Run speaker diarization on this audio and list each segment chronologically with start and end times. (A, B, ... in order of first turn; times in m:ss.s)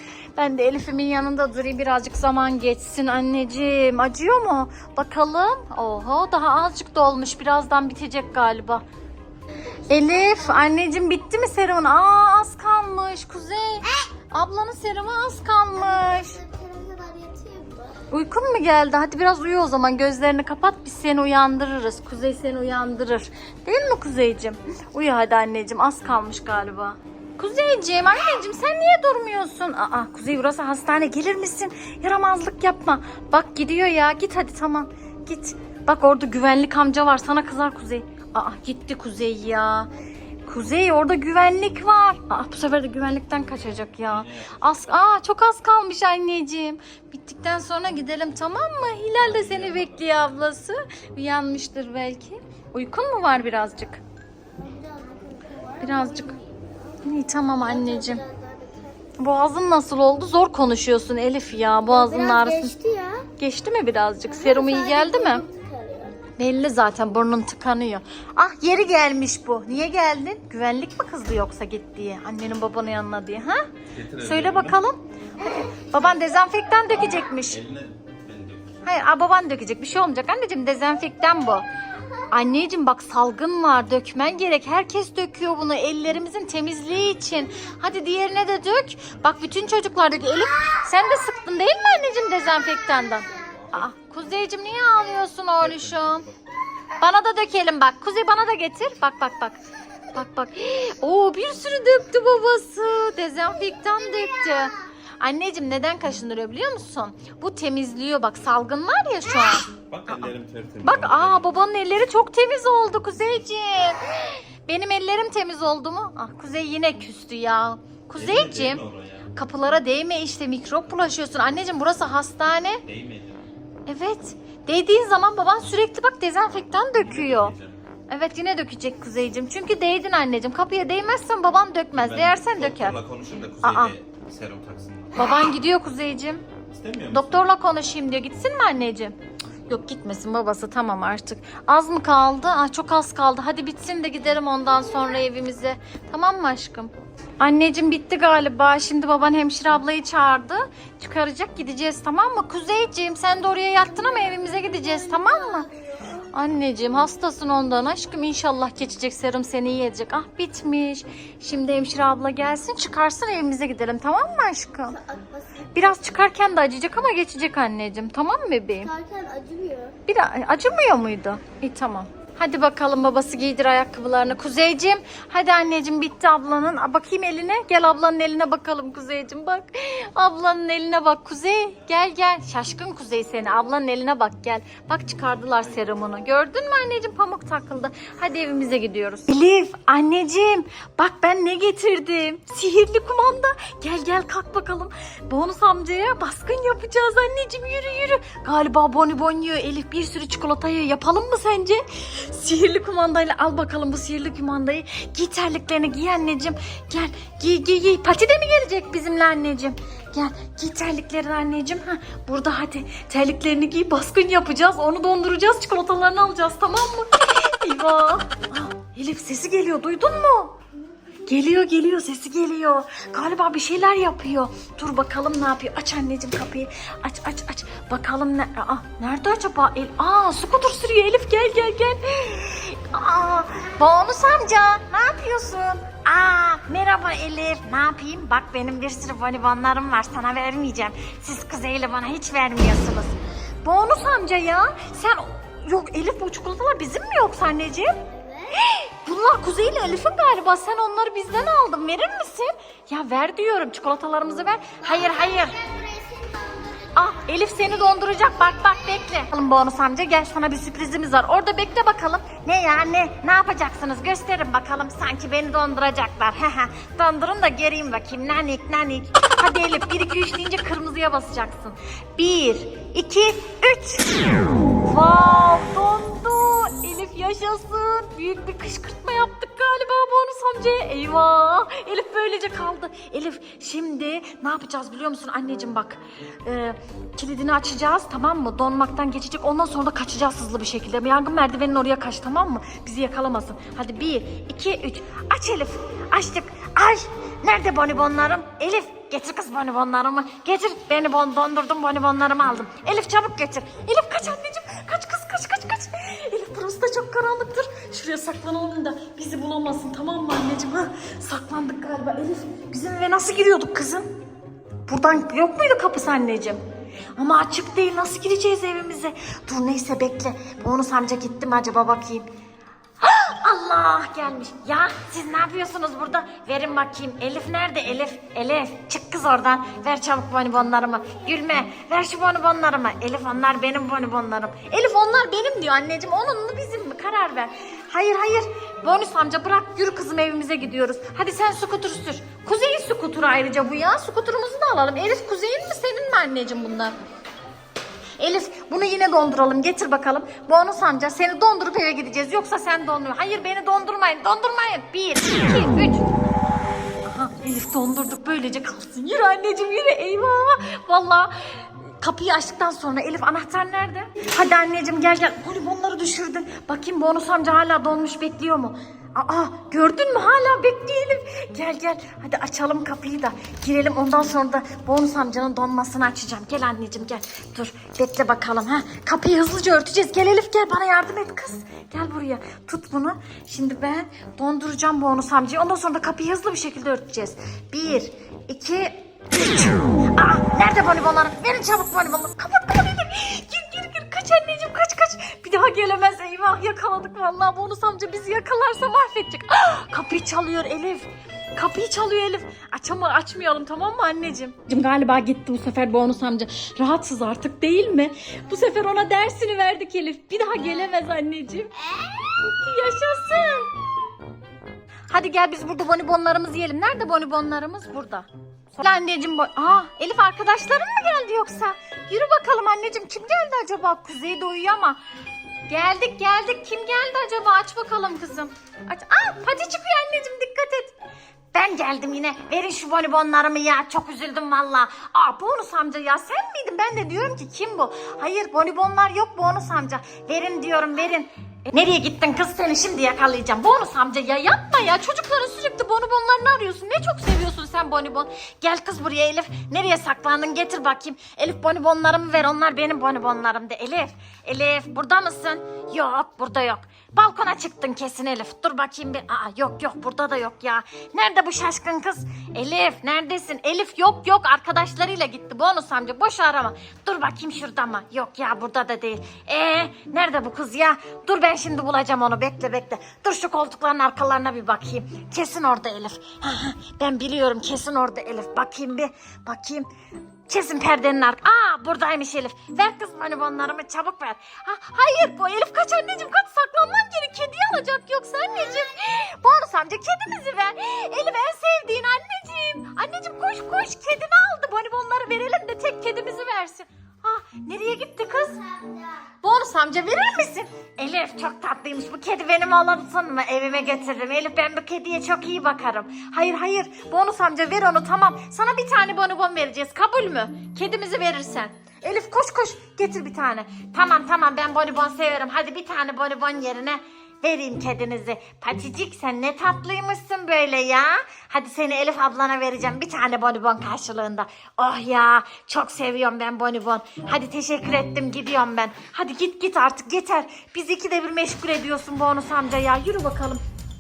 0:00.4-0:08.8 A
0:09.9-0:10.7 B
0:09.9-0:16.4 A
0:15.7-0:18.0 B
0:18.1-0:39.9 A
0:40.5-0:54.0 A
0:44.1-0:44.8 C
0:49.2-0:50.3 C
0:54.6-0:56.7 B
0:55.8-0:56.3 A
0:57.0-0:58.2 A
0:57.6-0:59.1 B
0:59.2-1:02.8 A
1:01.9-1:03.3 B
1:03.4-1:05.4 A
1:04.3-1:06.2 B
1:06.4-1:13.6 A
1:13.9-1:14.8 C
1:14.2-1:17.6 A
1:15.4-1:17.3 B
1:17.2-1:18.8 C
1:18.8-1:21.6 A
1:22.3-1:36.3 A
1:30.6-1:33.6 B
1:33.4-1:33.9 C
1:35.6-1:36.4 C
1:37.0-1:39.6 A
1:40.1-1:50.3 A
1:43.6-1:44.9 B
1:49.8-1:51.5 C
1:50.8-1:58.8 A
1:58.2-1:59.3 C
1:59.3-2:02.8 A
2:02.8-2:03.4 C
2:03.9-2:07.5 A
2:06.7-2:07.8 C
2:08.1-2:13.0 A
2:11.9-2:15.3 C
2:13.6-2:13.9 A
2:15.2-2:16.4 A
2:16.7-2:17.5 C
2:17.1-2:19.1 A
2:19.7-2:35.7 A
2:34.7-2:36.3 B
2:36.3-2:45.0 A
2:44.9-2:45.7 B
2:45.7-2:48.9 A
2:48.8-2:49.9 B
2:50.1-3:40.6 A
3:41.3-4:08.0 A
4:08.1-4:08.6 B
4:08.6-4:15.6 A
4:14.8-4:19.2 B
4:17.0-4:34.3 A
4:34.8-5:14.0 A
5:14.9-5:16.6 A
5:17.2-5:22.3 A
5:23.0-5:46.9 A
5:48.2-5:56.1 A
5:57.1-6:51.7 A
6:51.8-6:52.3 B
6:52.3-6:53.7 A
6:55.1-7:05.0 A
7:05.7-7:10.9 A
7:11.5-7:59.9 A
8:00.5-8:18.6 A
8:18.3-8:19.3 B
8:19.4-8:53.6 A